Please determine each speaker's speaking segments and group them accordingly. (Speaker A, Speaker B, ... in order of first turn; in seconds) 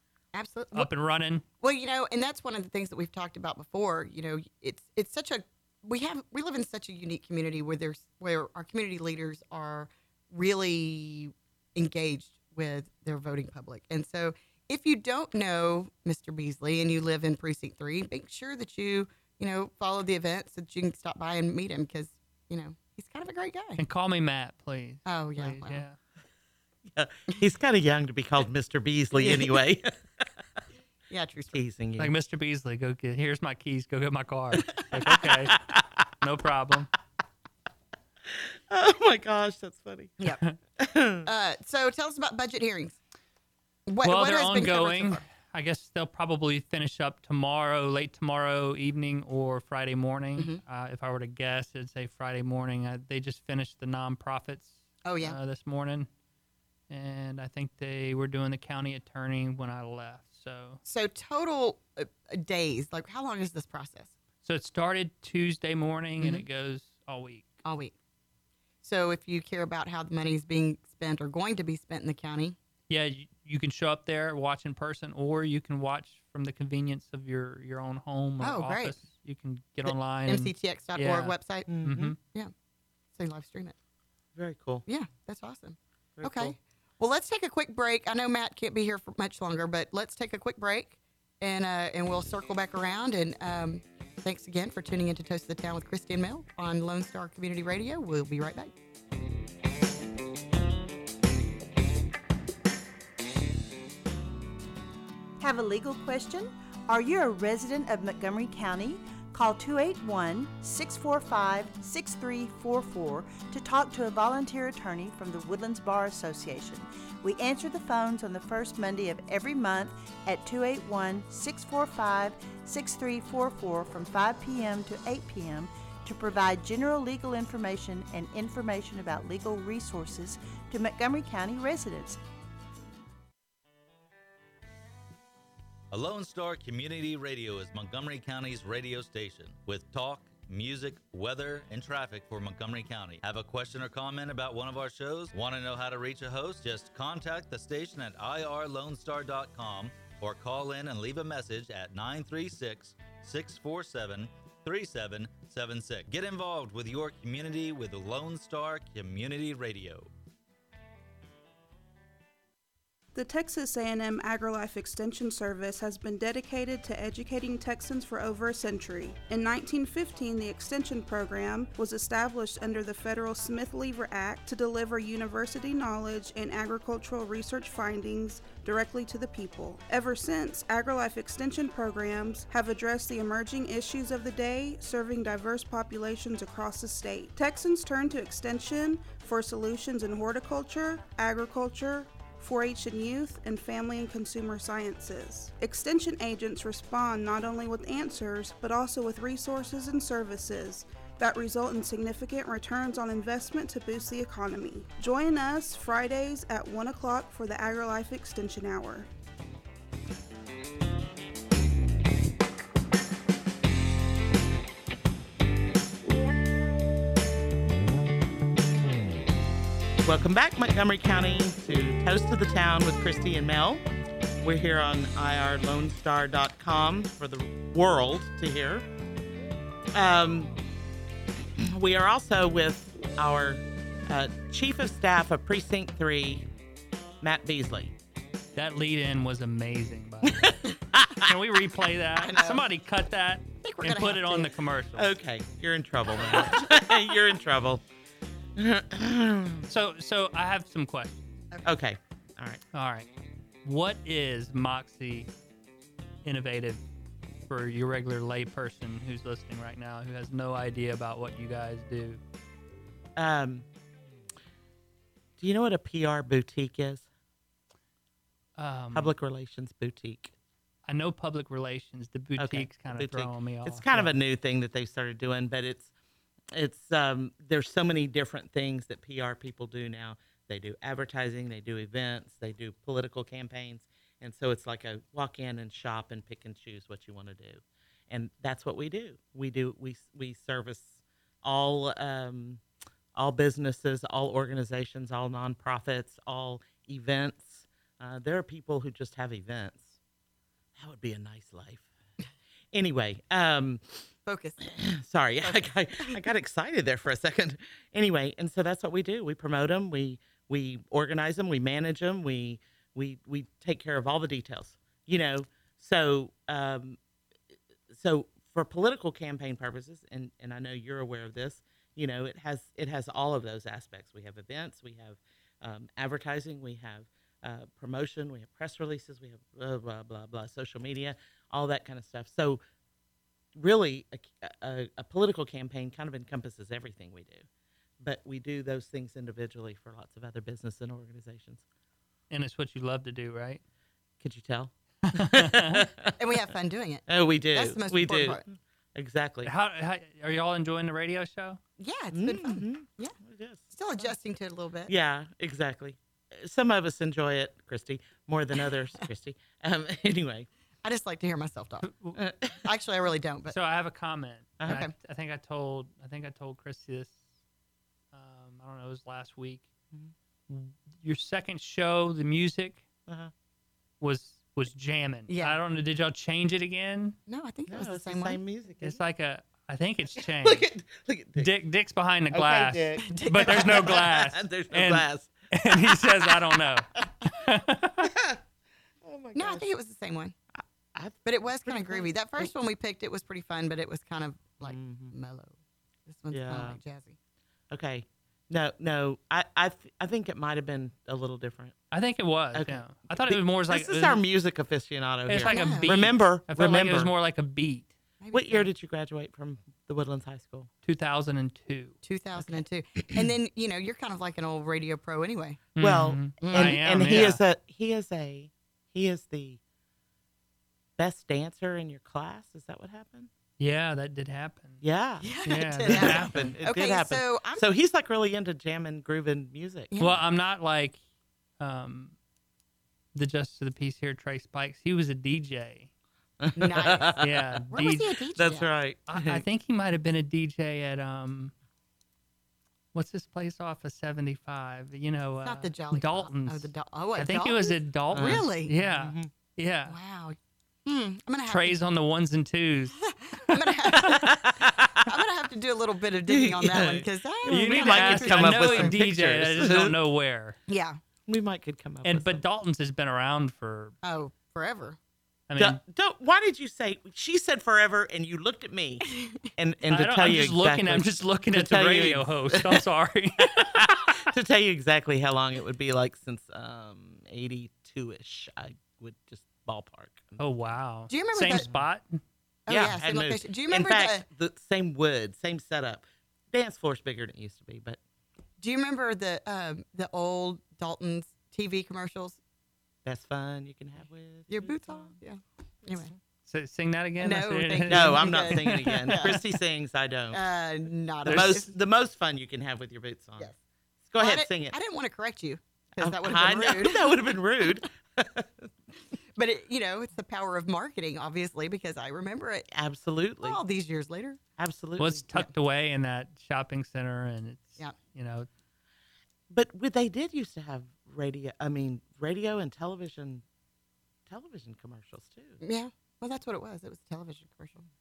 Speaker A: 0.3-0.9, 1.6-23.8, 25.0-25.8, 29.1-29.6, 31.1-31.6, 41.2-43.0, 43.9-45.2, 55.0-55.4, 60.8-64.1, 67.6-67.9, 68.8-72.5, 78.4-79.0, 79.8-81.7, 82.2-82.5, 83.1-83.8, 84.9-98.7, 242.2-242.7, 243.6-244.5, 304.2-304.6, 305.4-306.1, 346.2-348.4, 351.8-353.1, 353.7-354.9, 360.8-361.9, 362.6-363.5, 364.7-364.9, 375.3-375.6, 377.3-378.4, 383.0-384.0, 389.3-390.3, 391.2-395.5, 396.1-397.1, 405.4-406.0, 408.2-408.7, 412.0-415.6, 416.4-417.3, 425.2-427.6, 429.9-430.2, 436.6-438.7, 445.4-448.7, 449.9-451.8, 453.0-459.0, 460.7-461.0, 464.0-465.0, 481.1-481.7, 482.7-484.2, 488.6-492.4, 494.5-496.1, 497.2-499.4, 500.3-501.7, 504.2-507.2, 509.4-512.7, 513.4-514.4, 525.6-527.8
Speaker B: 0.7-1.4, 23.8-26.0, 32.0-35.5, 36.2-36.9, 44.0-56.1, 56.9-60.8, 64.4-67.5, 72.9-82.2, 238.6-240.5, 241.2-245.1, 249.7-251.2, 252.7-253.1, 253.6-255.3, 256.2-256.8, 257.5-262.2, 268.6-269.1, 270.9-274.1, 342.3-343.6, 345.1-345.8, 349.4-351.6, 361.8-362.2, 363.5-367.2, 368.1-369.7, 370.5-372.8, 374.0-377.2, 378.8-380.6, 381.4-388.1, 401.9-404.2, 405.3-407.9, 410.8-412.4, 415.8-417.4, 423.6-424.8, 425.4-426.5, 430.0-431.0, 431.6-432.1, 433.1-435.9, 437.2-438.1, 439.1-441.5, 442.9-449.9, 451.5-453.0, 453.9-454.2, 457.4-460.6, 462.0-463.9, 465.5-465.8, 469.9-474.2, 480.4-482.2, 496.5-499.3, 501.2-501.6, 515.0-518.5
Speaker C: 26.9-29.9, 31.5-32.1, 35.5-35.8, 38.7-40.2, 40.8-41.3, 81.7-82.1, 84.3-84.8, 86.2-86.5, 220.0-223.8, 224.4-228.8, 229.9-230.5, 231.6-236.4, 237.2-237.9, 240.4-241.3, 245.0-247.8, 248.6-249.7, 251.6-252.6, 263.2-263.6, 265.4-267.1, 268.9-270.3, 272.4-275.9, 276.5-292.6, 293.1-299.9, 300.8-301.9, 302.7-304.0, 304.6-317.0, 317.9-332.6, 333.6-337.4, 338.0-341.6, 344.2-346.1, 347.1-349.5, 352.1-353.7, 354.9-360.5, 362.2-362.6, 377.7-379.0, 380.4-381.5, 382.3-386.3, 388.0-388.4, 389.0-389.7, 390.6-392.5, 394.6-395.1, 396.3-396.8, 397.7-401.8, 402.5-407.1, 408.3-410.7, 415.8-419.6, 421.0-423.3, 424.8-425.3, 425.8-429.9, 436.4-437.3, 438.4-439.4, 448.1-449.3, 454.1-455.1, 456.3-460.0, 461.3-462.4, 465.6-472.8, 473.8-480.4, 482.7-488.0, 493.0-495.1, 497.9-500.4, 501.3-503.5, 504.1-504.8, 506.0-508.5, 512.7-513.6, 514.6-515.4, 519.5-523.4, 524.3-525.6
Speaker D: 105.4-132.2
Speaker E: 135.9-160.1
Speaker F: 163.1-209.1